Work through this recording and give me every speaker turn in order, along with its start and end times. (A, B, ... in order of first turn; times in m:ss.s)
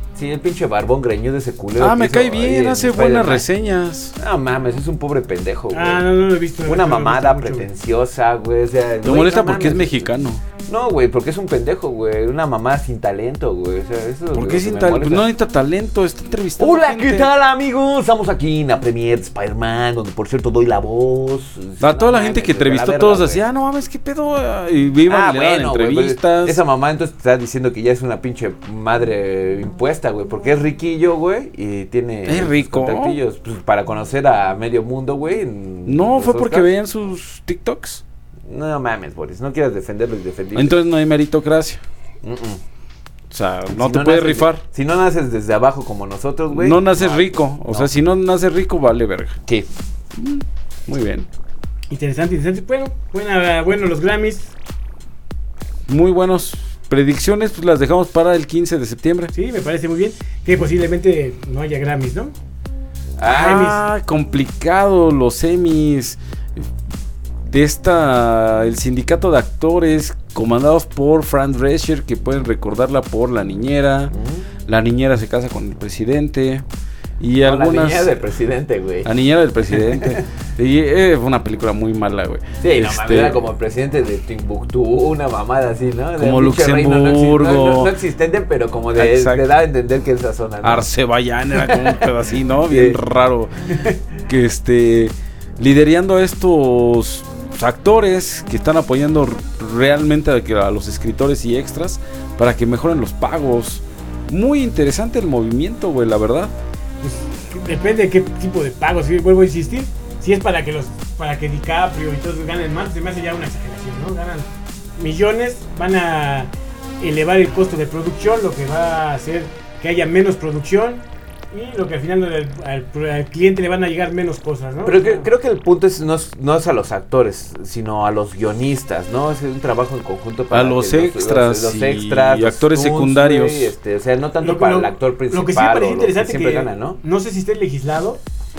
0:00.1-0:03.4 A
0:01.8-0:04.1 B
0:04.2-0:06.0 A
0:05.7-0:07.7 C
0:06.6-0:10.1 A
0:09.0-0:10.4 B
0:10.7-0:15.2 A
0:14.3-0:17.3 B
0:16.6-0:23.4 A
0:21.8-0:26.6 B
0:25.1-0:36.7 A
0:32.3-0:33.2 B
0:35.8-0:38.0 B
0:38.5-0:40.8 A
0:40.5-0:41.8 B
0:42.2-0:42.6 A
0:43.3-0:44.6 B
0:43.7-0:47.9 A
0:46.5-0:49.4 B
0:50.1-0:51.3 B
0:51.9-0:54.5 C
0:55.9-0:59.3 B
0:59.3-1:02.3 C
1:03.2-1:03.7 A
1:03.3-1:03.8 C
1:03.4-1:06.7 B
1:07.5-1:14.1 B
1:14.1-1:14.5 A
1:14.7-1:16.6 B
1:17.2-1:18.1 B
1:17.4-1:19.1 A
1:19.0-1:23.4 B
1:19.7-1:20.2 A
1:22.6-1:30.9 A
1:26.2-1:27.9 B
1:29.0-1:29.4 B
1:30.6-1:33.5 B
1:31.6-1:32.1 A
1:32.7-1:33.0 A
1:34.3-1:46.5 B
1:47.0-2:05.3 C
2:04.8-2:17.0 A
2:10.5-2:13.7 B
2:14.4-2:18.2 C